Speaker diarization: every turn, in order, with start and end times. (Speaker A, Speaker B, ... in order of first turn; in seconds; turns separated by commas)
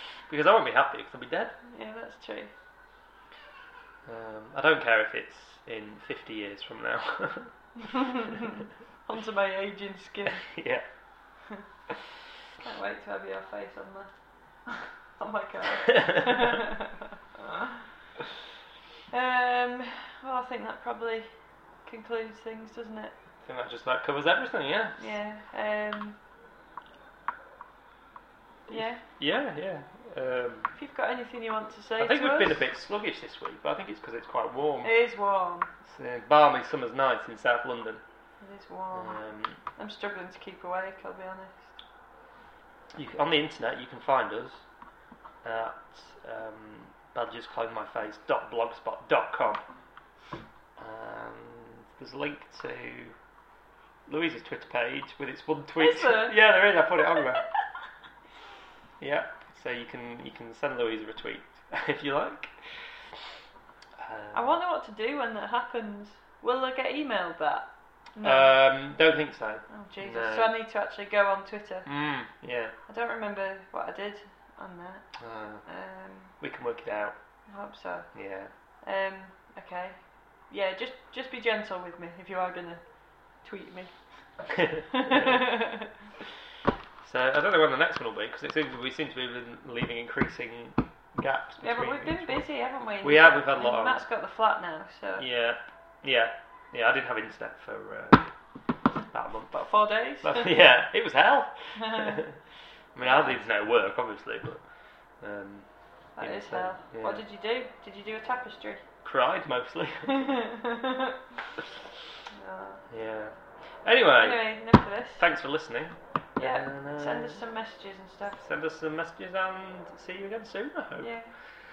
Speaker A: 0.3-1.6, Speaker B: 1.6-2.5, Speaker A: 4.1-7.5, Speaker B: 7.8-10.5, Speaker A: 10.4-10.8, Speaker B: 12.6-14.1, Speaker B: 14.7-17.8, Speaker A: 15.9-16.6, Speaker B: 19.1-21.3, Speaker B: 21.9-23.1, Speaker A: 23.4-25.1, Speaker B: 25.0-26.2, Speaker B: 28.7-29.0, Speaker A: 29.2-30.7, Speaker B: 30.8-32.6, Speaker A: 32.0-34.9, Speaker B: 34.8-35.7, Speaker A: 35.9-38.0, Speaker B: 38.4-39.2, Speaker A: 38.9-39.6, Speaker B: 39.8-41.8, Speaker A: 42.9-44.6, Speaker A: 45.4-49.6, Speaker A: 50.8-53.2, Speaker A: 54.1-57.5, Speaker B: 55.8-56.4, Speaker A: 59.0-62.5, Speaker A: 64.0-64.6, Speaker B: 64.3-68.6, Speaker A: 68.2-70.5, Speaker B: 69.7-71.9, Speaker A: 71.9-72.7, Speaker B: 72.9-75.0, Speaker A: 75.2-75.6, Speaker B: 75.7-76.3, Speaker A: 76.4-77.2, Speaker B: 77.5-78.1, Speaker A: 78.1-78.5, Speaker B: 78.8-84.0, Speaker A: 84.5-85.5, Speaker B: 84.7-85.9, Speaker A: 87.0-92.5, Speaker B: 91.6-95.2, Speaker A: 93.0-94.0, Speaker A: 95.2-98.3, Speaker A: 99.1-99.7, Speaker B: 99.5-100.5, Speaker A: 100.2-102.4, Speaker B: 101.8-102.2, Speaker A: 103.0-104.6, Speaker B: 103.0-103.4, Speaker A: 105.2-105.7, Speaker B: 106.2-108.8, Speaker A: 106.2-107.2, Speaker A: 109.0-110.3, Speaker B: 110.1-111.2, Speaker B: 112.3-112.8, Speaker A: 112.9-114.5, Speaker B: 114.2-115.2, Speaker A: 115.2-117.4, Speaker B: 116.4-118.4, Speaker A: 118.4-121.1, Speaker B: 121.0-121.3